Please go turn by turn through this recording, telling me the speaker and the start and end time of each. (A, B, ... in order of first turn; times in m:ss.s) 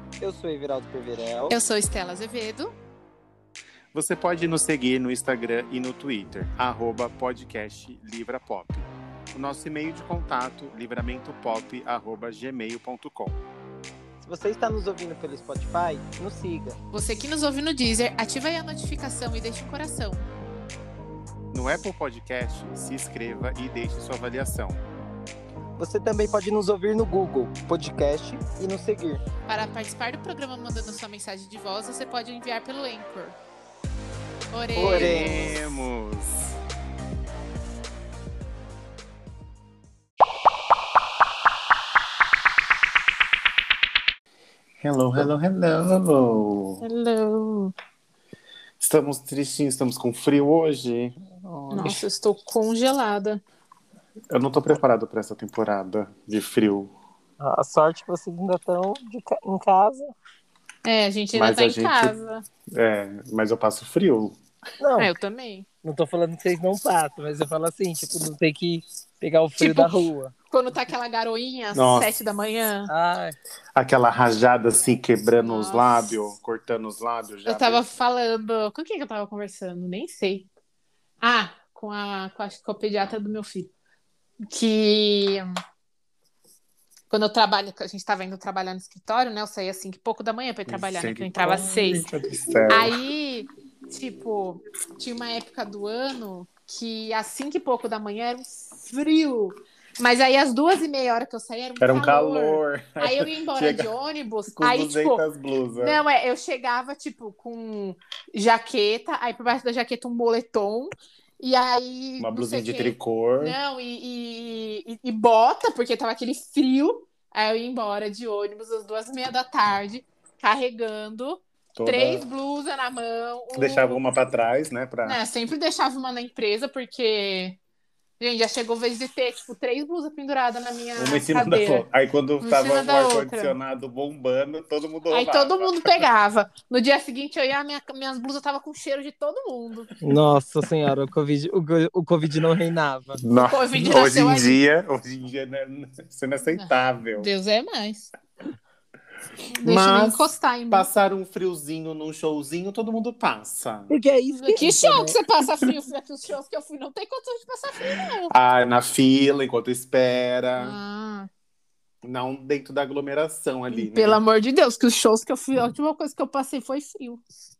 0:00.2-0:01.6 A
0:01.5-0:02.7 B
0:03.9-0:13.4 C
0:14.2-0:16.8 A
0:16.9-0:20.3 B
0:21.5-0:24.8 C
0:25.8-0:29.2 A
0:29.5-0:33.4 B
0:34.5-0:35.6 B
0:34.8-0:36.5 C
0:34.8-0:35.5 A
0:44.8-0:46.8 C
0:46.8-0:47.7 B
0:48.8-0:52.0 C
0:51.7-0:53.4 B
0:54.3-0:56.9 C
0:57.4-1:00.1 A
1:00.8-1:02.4 B
1:01.3-1:02.2 C
1:02.7-1:04.4 C
1:04.8-1:05.1 A
1:05.0-1:05.6 B
1:05.8-1:10.3 A
1:09.6-1:09.9 B
1:10.5-1:12.9 B
1:11.7-1:12.1 C
1:12.9-1:13.4 A
1:13.7-1:17.8 C
1:15.4-1:16.3 B
1:17.4-1:20.5 B
1:21.2-1:23.7 B
1:24.5-1:25.4 B
1:27.1-1:32.0 B
1:30.7-1:32.9 C
1:32.7-1:45.2 B
1:41.8-1:43.9 C
1:44.5-1:46.0 C
1:45.8-2:04.0 B
1:52.2-1:53.6 C
2:01.8-2:02.2 C
2:03.5-2:05.2 C
2:05.0-2:07.6 B
2:08.2-2:11.8 B
2:11.0-2:16.1 C
2:12.4-2:13.5 B
2:15.1-2:19.9 B
2:20.0-2:23.2 A
2:23.2-2:27.3 C
2:23.4-2:24.6 B
2:26.5-2:28.1 B
2:29.5-2:30.9 B
2:29.6-2:33.9 C
2:33.9-2:35.2 A
2:34.4-2:38.3 B
2:38.3-2:40.8 C
2:40.6-2:41.3 B
2:42.0-2:44.2 C
2:43.7-2:47.2 B